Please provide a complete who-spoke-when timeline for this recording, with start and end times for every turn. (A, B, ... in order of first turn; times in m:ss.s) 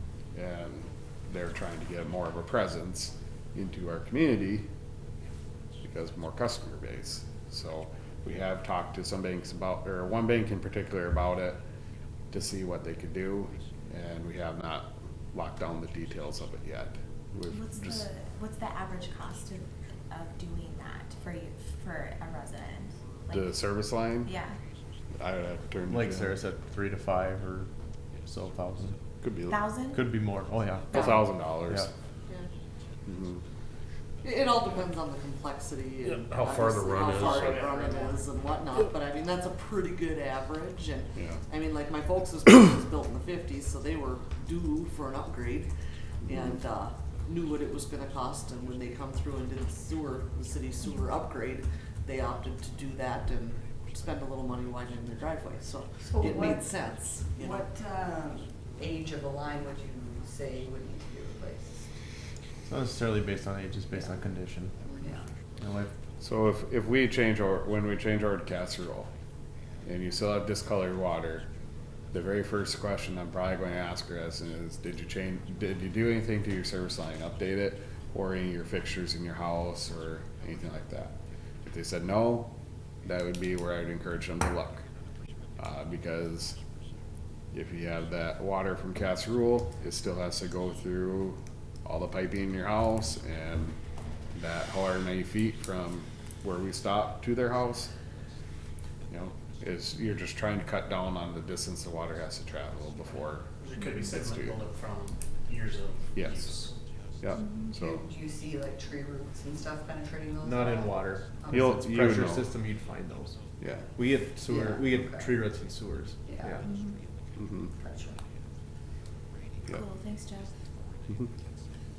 0:00.3-0:04.7 A
0:05.8-0:11.6 A
0:12.3-0:18.1 A
0:17.5-0:23.7 B
0:23.3-0:24.4 A
0:24.2-0:24.6 B
0:25.2-0:26.4 A
0:25.9-0:27.7 C
0:28.3-0:29.0 C
0:29.2-0:29.6 A
0:29.5-0:30.0 B
0:29.9-0:31.0 C
0:30.9-0:31.2 D
0:30.9-0:31.9 A
0:33.1-0:33.4 A
0:34.2-0:45.7 D
0:36.7-0:38.0 E
0:46.2-0:57.7 D
0:56.1-0:56.7 F
0:57.4-1:01.9 F
1:02.6-1:04.9 C
1:04.9-1:05.2 F
1:05.6-1:05.9 C
1:06.2-1:09.1 A
1:09.8-1:11.5 A
1:12.1-1:24.9 A
1:25.6-1:26.6 A
1:27.5-1:33.8 A
1:34.3-1:37.9 A
1:39.1-1:44.6 A
1:43.6-1:46.8 E
1:46.2-1:46.7 A
1:47.2-1:48.0 A
1:47.3-1:47.7 B
1:47.7-1:51.6 F
1:50.4-1:56.7 C
1:51.5-1:52.4 A
1:53.6-1:53.9 A
1:54.5-1:55.3 F
1:56.3-1:56.6 F
1:56.6-1:57.0 B
1:57.6-1:58.2 F
1:59.7-2:00.5 B